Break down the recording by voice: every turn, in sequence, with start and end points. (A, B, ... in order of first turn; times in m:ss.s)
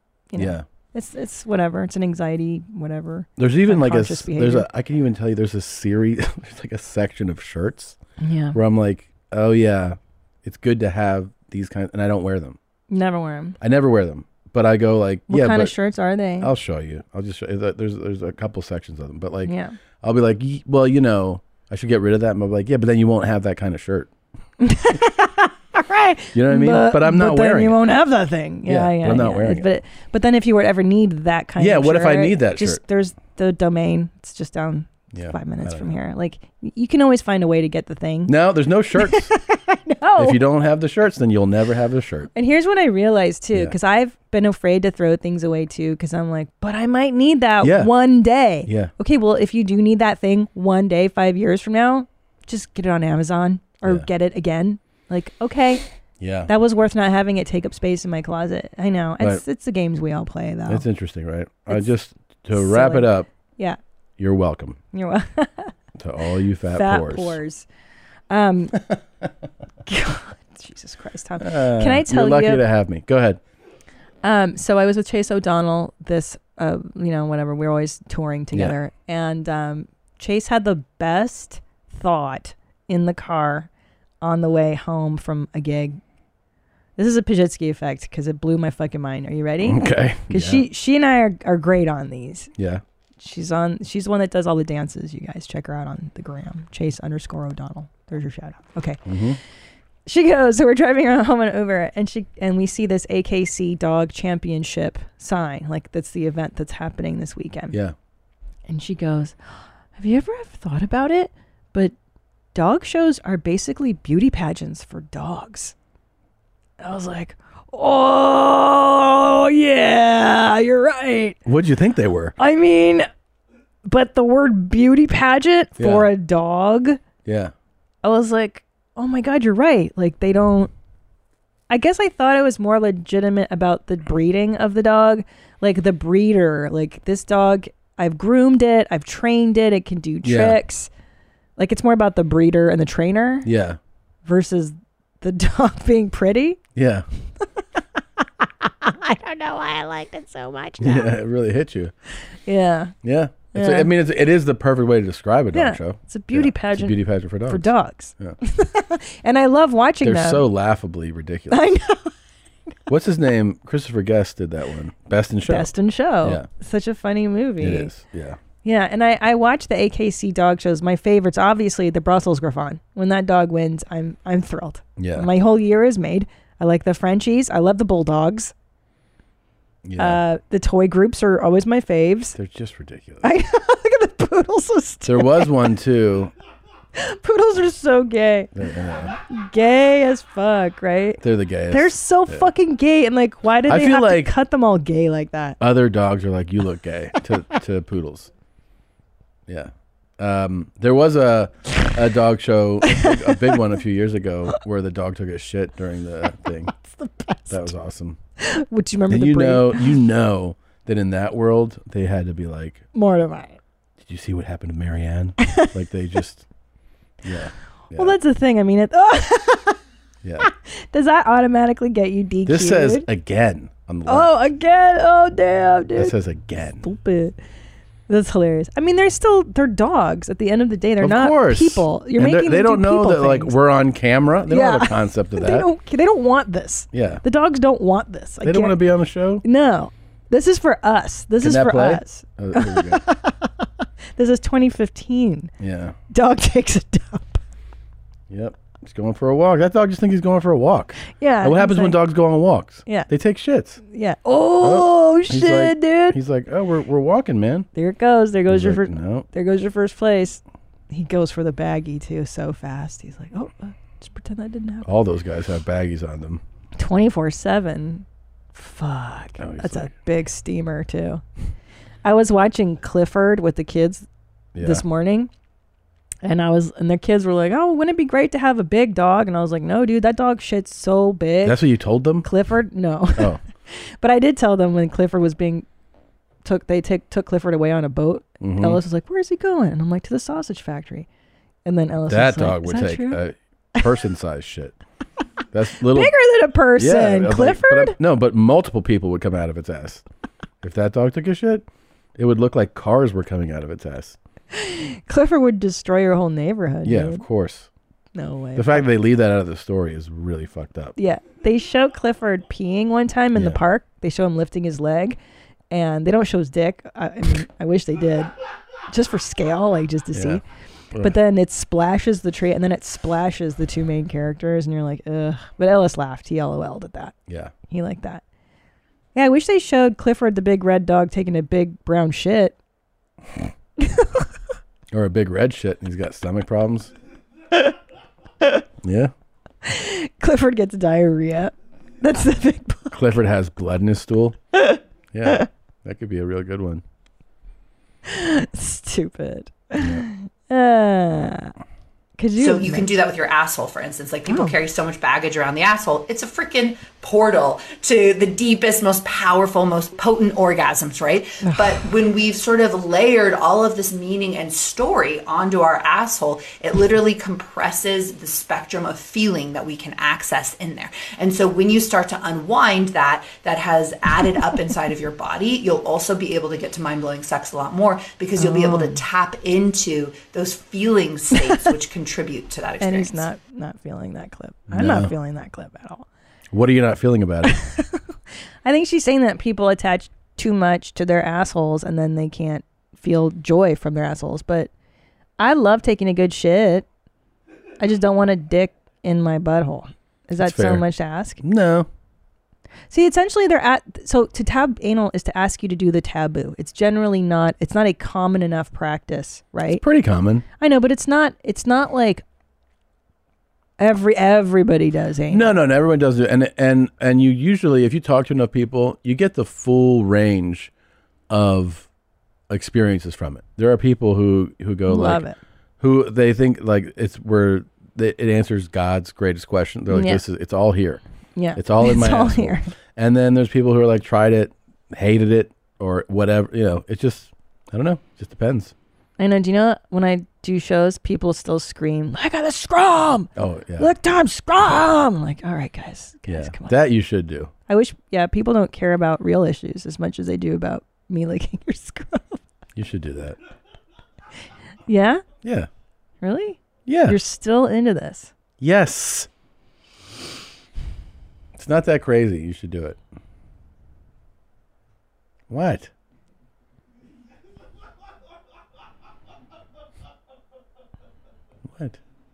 0:00.3-0:04.7 A
0:00.4-0:00.6 B
0:03.4-0:08.0 B
0:08.2-0:08.6 A
0:08.5-0:12.6 B
0:12.9-0:13.6 A
0:13.6-0:15.7 B
0:15.3-0:16.5 A
0:16.4-0:24.1 B
0:19.4-0:19.8 A
0:24.6-0:38.3 A
0:26.3-0:27.8 B
0:28.6-0:29.7 B
0:31.6-0:32.8 B
0:35.1-0:36.0 B
0:38.2-0:39.3 B
0:39.0-0:40.4 A
0:40.2-0:42.3 B
0:42.3-0:55.8 A
0:47.6-0:47.9 B
0:48.6-0:48.9 B
0:53.8-0:54.1 B
0:56.2-0:56.5 B
0:56.5-1:00.8 A
1:00.7-1:03.3 B
1:02.5-1:03.8 A
1:04.2-1:04.8 B
1:04.9-1:05.7 A
1:06.0-1:07.4 B
1:06.7-1:07.7 A
1:08.3-1:08.8 A
1:09.8-1:12.6 A
1:11.4-1:13.4 B
1:14.2-1:23.7 A
1:18.5-1:18.8 B
1:24.2-1:26.0 A
1:27.0-1:32.5 A
1:29.6-1:30.6 B
1:32.6-1:32.8 B
1:33.2-1:39.0 A
1:39.0-1:39.4 B
1:40.0-1:47.8 A
1:48.7-1:51.9 A
1:52.5-1:55.7 A
1:56.8-2:01.4 A
2:01.4-2:02.3 B
2:02.4-2:03.1 A
2:03.8-2:07.0 A
2:05.8-2:06.1 B
2:07.2-2:07.5 B
2:08.0-2:10.7 A
2:11.7-2:20.9 A
2:20.2-2:20.6 B
2:21.6-2:23.5 A
2:23.4-2:23.8 B
2:24.2-2:26.6 A
2:26.7-2:27.0 B
2:28.8-2:31.1 A
2:30.8-2:31.9 B
2:32.4-2:32.9 A
2:33.0-2:38.4 B
2:33.5-2:33.9 A
2:35.5-2:40.4 A
2:40.0-2:41.8 B
2:41.5-2:42.1 A
2:42.9-2:45.7 B
2:45.5-2:47.9 A
2:47.6-2:48.4 B
2:48.6-2:58.5 A
2:55.0-2:55.3 B
2:59.8-3:00.2 B
3:00.0-3:02.4 A
3:02.3-3:03.3 B
3:03.2-3:05.5 A
3:05.0-3:06.3 B
3:06.9-3:08.5 A
3:08.5-3:09.1 B
3:09.1-3:15.6 A
3:11.2-3:12.5 B
3:13.7-3:14.3 B
3:15.6-3:18.3 B
3:19.5-3:26.7 B
3:22.8-3:23.6 A
3:26.7-3:27.7 A
3:27.5-3:28.2 B
3:28.4-3:30.0 A
3:29.1-3:32.8 B
3:32.9-3:33.6 A
3:34.0-3:36.4 B
3:35.4-3:35.7 A
3:37.2-3:38.2 B
3:37.9-3:39.8 A
3:40.2-3:40.5 B
3:40.4-3:43.0 A
3:42.4-3:44.3 B
3:44.1-3:46.1 A
3:46.0-3:46.8 B
3:46.8-3:47.4 A
3:48.1-3:53.5 A
3:51.0-3:55.7 B
3:54.5-3:58.8 A
3:56.9-3:57.2 B
3:58.4-3:59.4 B
3:59.4-4:05.5 A
4:01.4-4:03.0 B
4:05.6-4:06.0 B
4:06.1-4:07.4 A
4:08.3-4:13.8 B
4:11.1-4:12.0 A
4:13.8-4:16.2 A
4:14.6-4:17.7 B
4:17.7-4:24.9 A
4:18.5-4:19.2 B
4:24.8-4:26.4 B
4:26.8-4:31.2 A
4:29.4-4:29.9 B
4:32.0-4:34.1 A
4:34.5-4:34.8 B
4:34.6-4:35.3 A
4:36.2-4:41.6 A
4:41.4-4:42.3 B
4:42.2-4:45.6 A
4:43.2-4:43.4 B
4:46.4-4:51.1 A
4:48.4-4:48.8 B
4:51.6-4:53.2 A
4:52.1-4:54.8 B
4:55.5-4:56.1 B
4:55.9-4:58.0 A
4:56.7-5:00.0 B
5:00.6-5:04.2 B
5:04.5-5:07.2 A
5:06.8-5:07.7 B
5:08.1-5:08.9 A
5:08.6-5:10.9 B
5:11.0-5:15.2 A
5:13.3-5:13.6 B
5:15.7-5:18.3 A
5:18.9-5:20.4 A
5:20.1-5:21.2 B
5:21.0-5:27.1 A
5:27.3-5:27.5 B
5:27.7-5:28.2 A
5:29.1-5:32.6 A
5:33.8-5:34.3 A
5:34.9-5:36.9 B
5:38.8-5:39.1 B
5:39.6-5:43.1 A
5:42.9-5:44.4 B
5:44.5-5:45.5 A
5:45.1-5:46.8 B
5:48.0-5:51.5 A
5:49.8-5:50.0 B
5:52.2-5:52.9 A
5:52.4-6:23.3 C
5:54.3-5:54.6 A
6:01.4-6:01.9 A
6:18.4-6:19.0 A
6:21.3-6:21.6 A
6:22.8-6:26.0 A
6:24.7-6:25.1 B
6:26.5-6:27.6 B
6:27.4-6:28.0 A
6:28.6-6:34.7 A
6:35.4-6:36.8 A
6:37.8-6:41.4 A
6:40.4-6:40.8 B
6:41.4-6:41.9 B
6:42.9-6:49.8 A
6:49.7-6:50.4 B
6:50.6-6:52.2 A
6:53.8-6:55.6 A
6:55.3-7:00.7 B
7:01.3-7:01.9 B
7:02.5-7:05.2 B
7:04.9-7:05.4 A
7:05.8-7:11.0 B
7:09.9-7:10.2 A
7:11.4-7:12.7 A
7:11.6-7:18.7 B
7:19.2-7:26.7 A
7:23.4-7:23.9 B
7:26.3-7:27.5 B
7:27.7-7:32.4 A
7:32.8-7:33.4 B
7:34.9-7:35.2 A
7:35.4-7:35.7 B
7:36.2-7:38.3 A
7:36.8-7:37.2 B
7:38.6-7:39.3 B
7:41.5-7:43.0 B
7:45.5-7:45.9 B
7:51.6-7:52.0 B